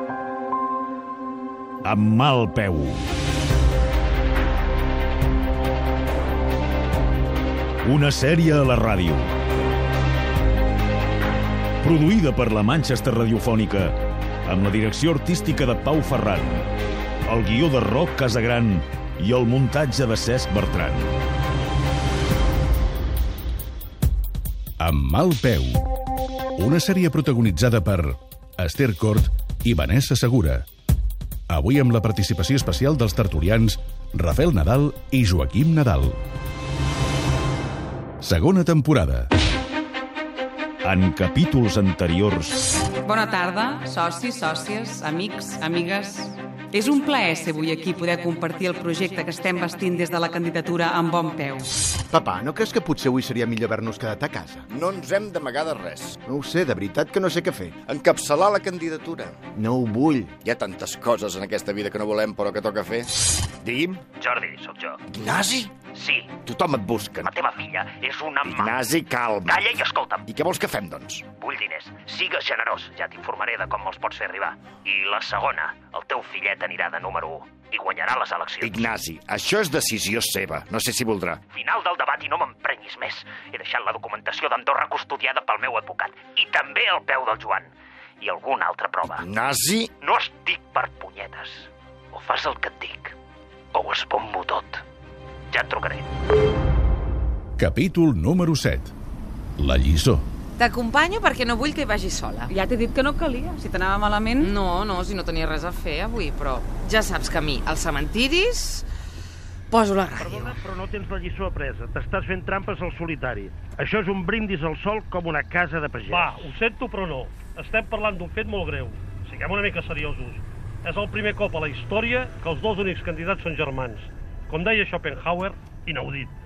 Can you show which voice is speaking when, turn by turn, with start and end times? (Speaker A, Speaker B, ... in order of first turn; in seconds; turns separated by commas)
Speaker A: 1.8-3.1, Speaker A: 7.8-9.3, Speaker A: 11.8-16.7, Speaker A: 17.3-21.2, Speaker B: 24.8-25.9, Speaker B: 26.6-30.6, Speaker B: 31.5-36.2, Speaker B: 38.2-39.3, Speaker A: 40.8-42.6, Speaker C: 43.0-51.7, Speaker D: 52.1-54.7, Speaker E: 54.7-56.2, Speaker D: 56.2-57.8, Speaker E: 57.8-59.4, Speaker D: 59.6-60.3, Speaker E: 60.4-64.0, Speaker F: 64.2-65.0, Speaker E: 65.1-65.9, Speaker F: 65.8-66.4, Speaker E: 66.4-67.4, Speaker F: 67.2-68.8, Speaker E: 68.4-71.3, Speaker F: 69.5-70.3, Speaker F: 71.3-78.9, Speaker E: 78.6-81.4, Speaker F: 81.5-89.2, Speaker E: 89.2-89.9, Speaker F: 90.0-93.1, Speaker F: 93.7-94.8, Speaker F: 95.5-96.1, Speaker B: 97.6-98.9, Speaker B: 99.6-100.3, Speaker G: 100.6-102.5, Speaker C: 102.5-104.5, Speaker G: 104.4-108.8, Speaker G: 109.7-110.6, Speaker H: 110.2-116.4, Speaker I: 116.1-126.3